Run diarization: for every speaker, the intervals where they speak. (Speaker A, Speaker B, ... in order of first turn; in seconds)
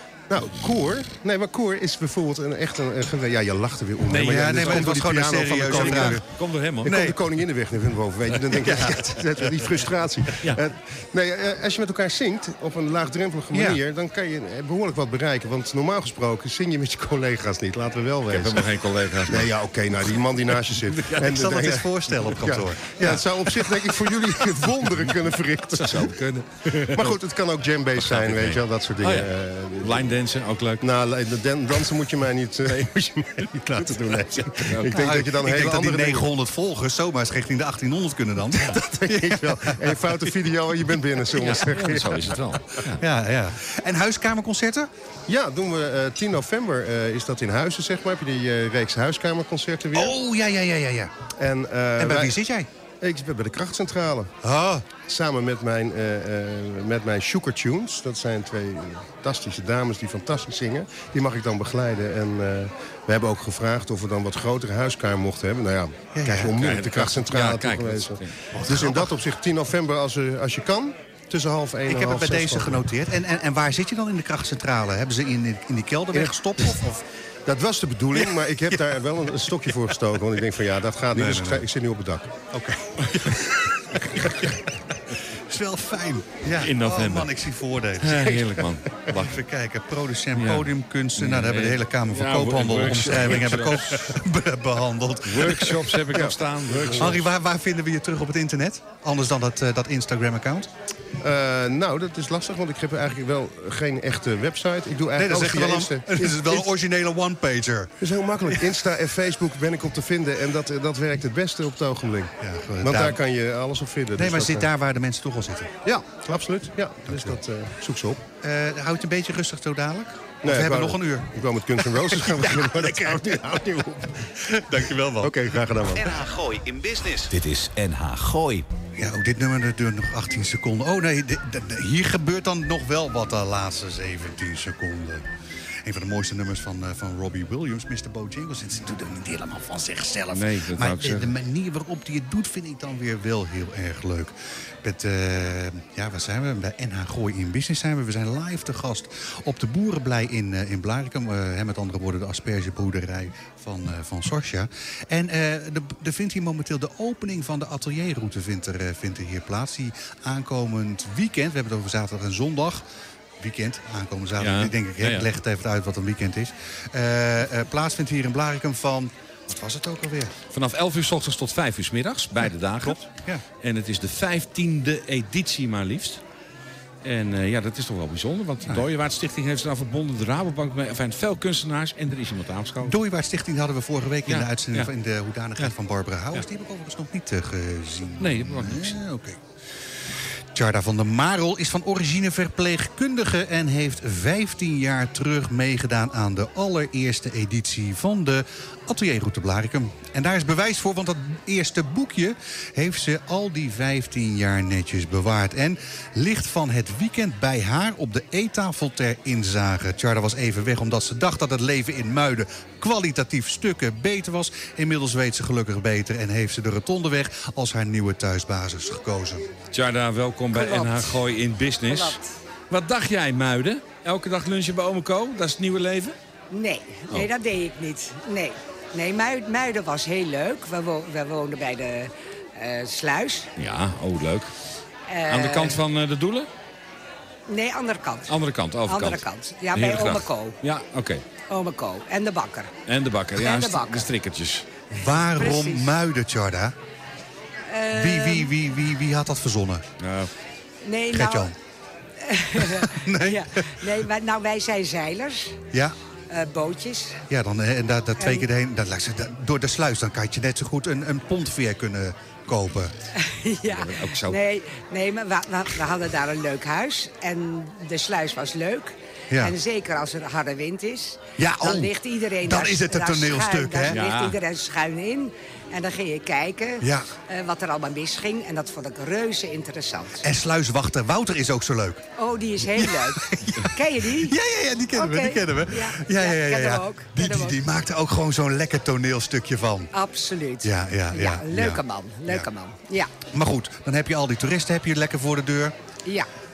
Speaker A: 0.3-6.2, 6.8-26.2, 26.8-30.1, 30.8-36.3, 38.6-42.4, 45.3-50.1, 51.4-52.4, 53.0-54.3, 54.9-72.8, 76.1-76.8, 77.5-82.3, 96.1-97.1, 101.2-106.7, 108.0-114.7, 115.8-118.2, 120.4-124.2, 125.2-126.1
Speaker B: 4.1-5.0, 5.6-7.2, 18.3-19.5, 20.9-21.3, 25.8-27.2, 28.0-30.9, 34.5-35.1, 41.4-43.0, 66.6-68.3, 86.6-87.3, 88.0-89.4, 90.3-94.2, 95.2-97.2, 140.3-141.3, 164.4-165.3, 170.5-173.1, 173.6-176.2, 177.0-183.0, 184.3-184.9, 188.2-189.0, 219.7-222.2, 222.7-226.2, 233.6-234.5, 235.3-236.5, 238.3-241.2, 242.9-244.7, 250.0-250.3, 263.6-264.4, 273.9-274.4
Speaker C: 4.2-6.2, 6.8-7.2, 8.7-8.9, 21.1-23.3, 34.9-40.2, 42.9-44.9, 49.9-51.1, 52.0-52.7, 54.4-54.9, 66.2-66.5, 68.5-69.1, 71.9-77.0, 81.1-81.7, 82.5-84.6, 85.3-96.2, 96.9-100.7, 105.2-108.1, 112.4-113.2, 114.2-115.7, 117.1-117.4, 118.4-123.5, 124.4-125.5, 129.0-135.3, 135.8-162.8, 163.4-170.3, 172.8-173.4, 182.8-189.4, 190.5-219.5, 244.9-246.8, 247.9-249.8, 251.1-251.6, 252.6-253.9, 257.3-262.9, 271.4-274.0, 276.8-277.1, 280.2-282.1, 282.6-289.9, 290.6-292.5, 293.3-295.8
Speaker D: 125.9-128.7
Speaker E: 220.5-221.2, 221.8-222.2, 226.5-233.5, 235.1-235.8, 237.5-238.4, 238.9-240.6, 241.5-242.7, 243.4-244.1, 245.3-245.9, 247.7-248.5, 250.8-251.5, 252.2-255.6, 256.3-257.2, 258.2-258.5, 263.1-280.2, 282.2-284.3, 284.9-287.6, 289.9-293.1